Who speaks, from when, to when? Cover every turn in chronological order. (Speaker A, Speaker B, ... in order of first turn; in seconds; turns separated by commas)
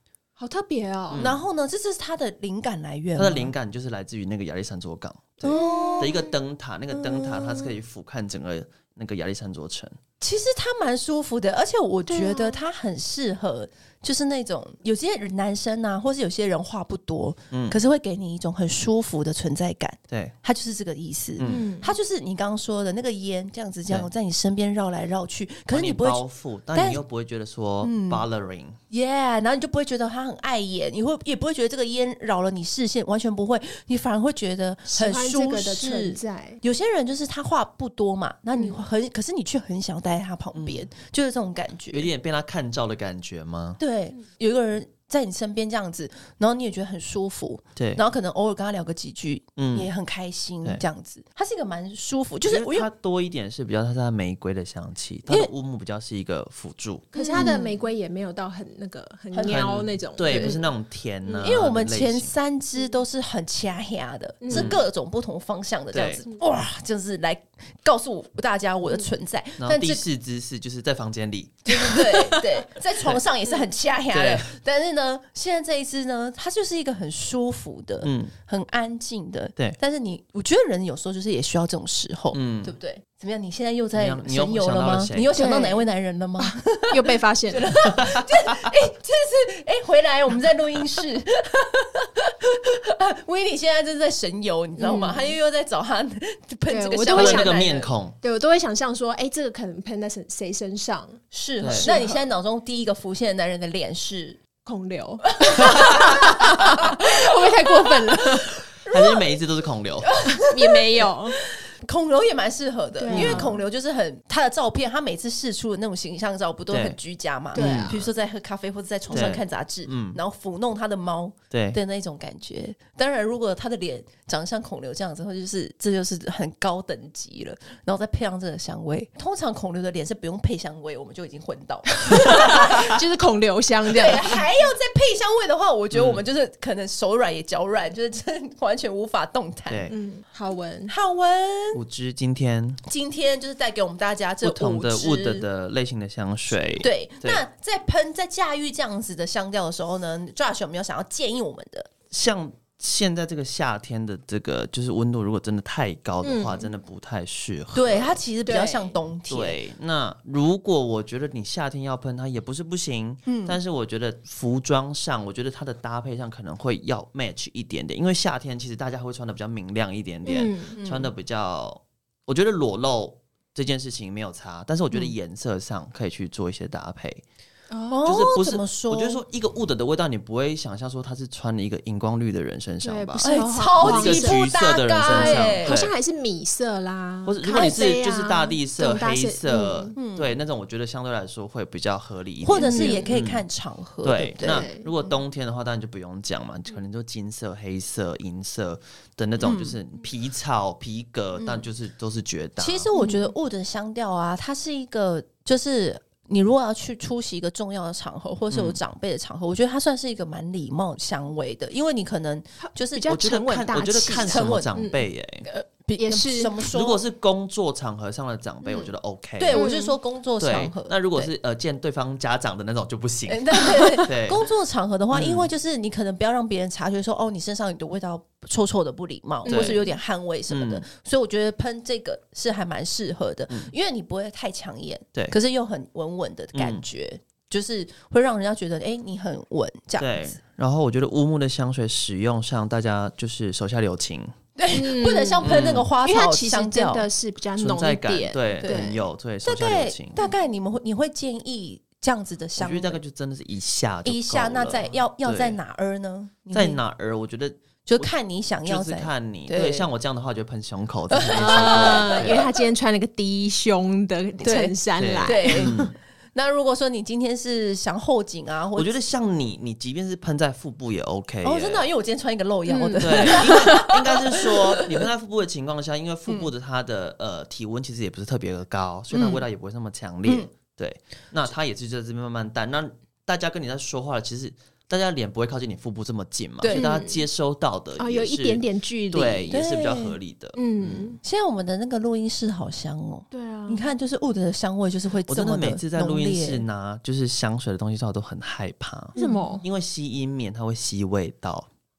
Speaker A: 0.4-1.2, Speaker B: 1.1-1.4, Speaker C: 1.2-3.5, Speaker B: 3.2-10.0, Speaker C: 5.4-6.3, Speaker A: 5.5-6.3, Speaker C: 6.9-7.8, Speaker C: 10.2-26.2, Speaker A: 12.1-12.6, Speaker B: 17.5-17.8, Speaker B: 21.4-21.7, Speaker A: 21.4-21.9, Speaker B: 25.7-28.8, Speaker C: 26.7-27.0, Speaker C: 27.8-28.2, Speaker C: 28.9-42.1, Speaker A: 34.9-36.6, Speaker A: 38.5-38.8, Speaker B: 40.5-40.9, Speaker B: 41.9-43.8, Speaker C: 43.8-52.9, Speaker B: 47.8-48.0, Speaker B: 49.6-49.9, Speaker B: 52.5-57.6, Speaker A: 57.1-60.6, Speaker C: 57.2-57.7, Speaker C: 59.3-59.7, Speaker B: 59.5-62.3, Speaker C: 60.4-60.6, Speaker A: 61.3-61.5, Speaker C: 61.4-70.0, Speaker A: 64.4-64.8, Speaker B: 64.5-64.8, Speaker B: 65.9-66.2, Speaker B: 69.6-71.8, Speaker C: 71.7-97.9, Speaker A: 71.9-72.4, Speaker B: 74.1-74.5, Speaker B: 78.0-78.3, Speaker B: 82.3-82.8, Speaker B: 84.0-85.4, Speaker A: 85.3-85.9, Speaker A: 86.4-87.9, Speaker B: 87.9-88.7, Speaker A: 94.8-95.3, Speaker A: 96.7-101.2, Speaker B: 97.1-98.2, Speaker C: 101.3-104.4, Speaker B: 101.6-101.9, Speaker A: 101.7-102.3, Speaker A: 104.6-108.5, Speaker C: 105.4-109.3, Speaker B: 108.9-110.2, Speaker C: 110.2-133.0, Speaker A: 110.4-111.4, Speaker A: 113.0-113.6, Speaker B: 113.1-113.5, Speaker B: 116.7-117.0, Speaker A: 117.5-118.0, Speaker B: 117.5-118.1, Speaker A: 119.1-119.4, Speaker B: 119.1-120.2, Speaker B: 121.5-121.8, Speaker A: 132.0-134.5, Speaker C: 133.9-139.9, Speaker B: 135.9-136.2, Speaker B: 139.7-139.9, Speaker A: 139.9-140.9, Speaker C: 140.9-141.8, Speaker B: 141.7-142.8, Speaker C: 142.8-145.5, Speaker B: 144.4-147.4, Speaker C: 146.8-151.9, Speaker B: 152.1-158.2, Speaker A: 156.2-156.7, Speaker C: 157.8-159.6, Speaker A: 158.5-158.9, Speaker B: 159.3-177.2, Speaker C: 163.3-163.6, Speaker A: 170.3-170.8, Speaker C: 170.8-171.1, Speaker A: 177.7-178.2, Speaker C: 177.9-179.2, Speaker B: 178.1-185.9, Speaker A: 182.8-184.4, Speaker C: 183.2-185.7, Speaker A: 185.0-190.0, Speaker B: 187.3-193.4, Speaker C: 190.0-190.4, Speaker C: 192.4-195.1, Speaker A: 192.5-193.1, Speaker B: 194.0-202.9, Speaker A: 194.4-194.9, Speaker C: 199.4-199.8, Speaker C: 202.6-213.2, Speaker A: 202.9-203.3, Speaker B: 208.5-208.8, Speaker A: 212.6-215.0, Speaker B: 213.1-215.5, Speaker C: 214.0-214.8, Speaker C: 215.4-217.0, Speaker A: 216.0-216.6, Speaker B: 216.7-219.6, Speaker C: 218.7-221.3, Speaker A: 219.5-219.9, Speaker B: 220.4-224.4, Speaker C: 223.3-240.4, Speaker B: 225.1-225.5, Speaker A: 229.4-229.9, Speaker B: 229.5-229.8, Speaker B: 230.5-230.8, Speaker B: 236.5-236.8, Speaker B: 240.0-244.3, Speaker C: 244.6-247.1, Speaker A: 244.7-249.0, Speaker B: 245.4-245.9, Speaker B: 247.6-250.2, Speaker C: 248.6-253.0, Speaker B: 252.6-255.6, Speaker C: 254.1-256.8, Speaker B: 256.5-258.1, Speaker C: 257.9-259.9, Speaker B: 258.6-262.5, Speaker C: 261.1-262.5, Speaker A: 261.3-265.9, Speaker C: 264.4-268.9, Speaker B: 265.0-265.9, Speaker B: 268.8-271.9, Speaker C: 271.4-275.1, Speaker A: 272.7-274.0, Speaker B: 273.0-291.1, Speaker C: 279.1-279.4, Speaker C: 286.6-287.0, Speaker A: 286.7-287.2, Speaker A: 288.0-289.5, Speaker C: 289.5-290.2, Speaker A: 290.6-291.2, Speaker C: 291.2-296.6, Speaker A: 293.3-293.9, Speaker B: 295.3-301.7, Speaker C: 299.2-299.6, Speaker A: 299.2-299.6